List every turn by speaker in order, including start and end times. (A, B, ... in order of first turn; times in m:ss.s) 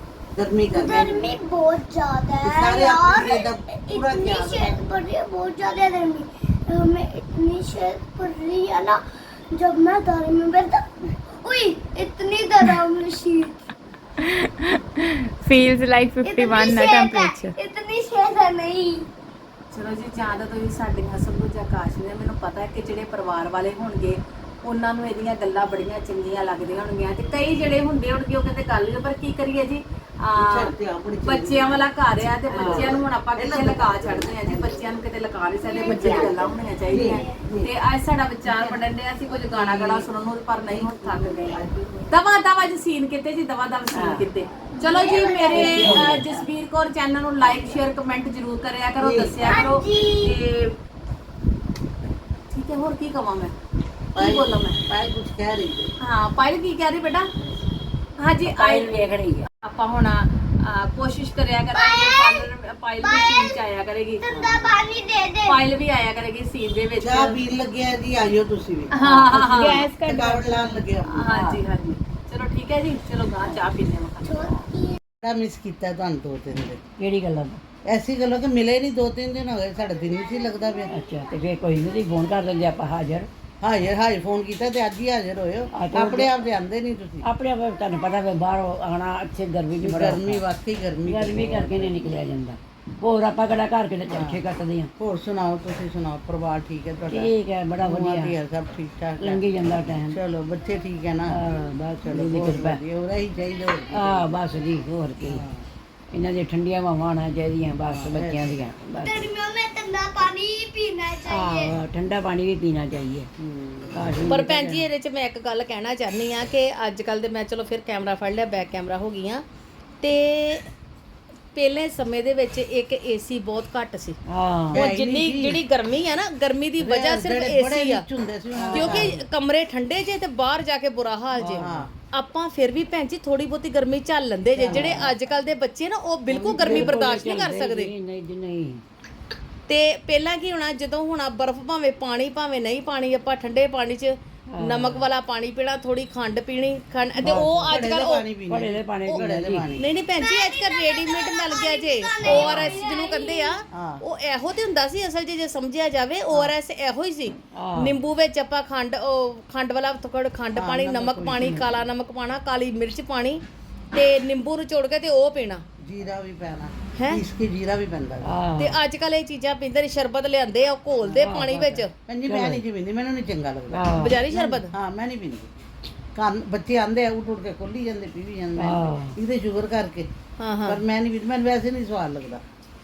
0:00.3-0:01.3 A
0:00.7-0:09.0 B
0:02.4-0:04.8 A
0:09.5-0:13.6 B
0:14.2-0:17.6 C
0:16.2-0:19.0 B
0:19.7-0:30.7 D
0:30.3-0:34.9 A
0:31.2-0:50.7 D
0:32.5-0:33.0 E
0:35.6-0:37.4 B
0:35.8-0:37.7 A
0:38.4-0:38.8 A
0:39.5-0:40.1 A
0:40.6-0:42.1 A
0:43.9-0:44.3 E
0:44.7-0:46.1 B
0:45.5-0:46.2 A
0:45.5-0:46.4 E
0:49.0-0:49.5 A
0:49.4-0:50.4 B
0:52.5-0:53.5 D
0:54.1-0:55.9 A
0:54.2-0:54.8 D
0:56.0-0:57.3 D
0:58.2-1:04.2 D
0:58.5-0:59.5 E
1:01.7-1:02.5 B
1:03.0-1:03.6 B
1:04.2-1:05.6 B
1:04.3-1:04.7 E
1:05.4-1:07.4 D
1:07.0-1:08.9 A
1:08.9-1:09.8 D
1:09.0-1:10.3 E
1:09.4-1:10.8 C
1:09.9-1:11.3 A
1:11.0-1:14.6 D
1:11.3-1:11.6 E
1:13.4-1:13.7 E
1:14.2-1:15.0 B
1:15.2-1:16.8 A
1:17.0-1:17.6 E
1:17.8-1:20.9 A
1:20.9-1:23.3 E
1:23.6-1:27.3 A
1:25.7-1:26.4 E
1:27.2-1:30.4 E
1:29.8-1:32.0 A
1:31.0-1:34.9 E
1:34.1-1:34.4 A
1:35.0-1:39.4 A
1:37.1-1:38.4 E
1:39.2-1:40.2 E
1:40.0-1:41.4 A
1:41.3-1:42.8 E
1:42.0-1:44.3 A
1:43.9-1:45.4 E
1:45.2-1:45.6 A
1:46.1-1:49.2 E
1:47.9-1:48.6 A
1:49.0-1:51.8 B
1:51.2-1:53.3 E
1:53.4-1:54.3 A
1:53.9-1:54.9 E
1:54.3-1:59.4 D
2:00.0-2:00.7 D
2:01.5-2:04.2 D
2:04.3-2:04.8 E
2:04.7-2:05.6 A
2:04.7-2:08.0 D
2:06.8-2:09.2 A
2:08.5-2:09.2 E
2:08.7-2:17.9 D
2:11.4-2:11.9 E
2:11.4-2:11.9 A
2:14.6-2:15.1 A
2:14.6-2:15.1 E
2:16.3-2:17.3 A
2:16.4-2:18.8 E
2:19.7-2:28.2 D
2:24.5-2:25.1 E
2:27.2-2:27.8 E
2:27.2-2:29.8 A
2:28.5-2:29.7 E
2:29.1-2:43.4 D
2:30.2-2:33.6 B
2:32.2-2:32.7 E
2:33.7-2:34.0 A
2:37.5-2:38.0 E
2:40.5-2:41.7 A
2:43.9-2:45.6 D
2:45.8-2:48.4 A
2:46.9-2:47.2 D
2:48.2-2:48.8 E
2:48.6-2:51.9 D
2:51.1-2:52.6 E
2:52.0-2:55.5 A
2:53.7-2:54.2 E
2:53.9-2:54.7 D
2:56.1-3:00.1 A
2:58.6-2:59.2 E
3:00.4-3:00.8 D
3:00.6-3:02.4 A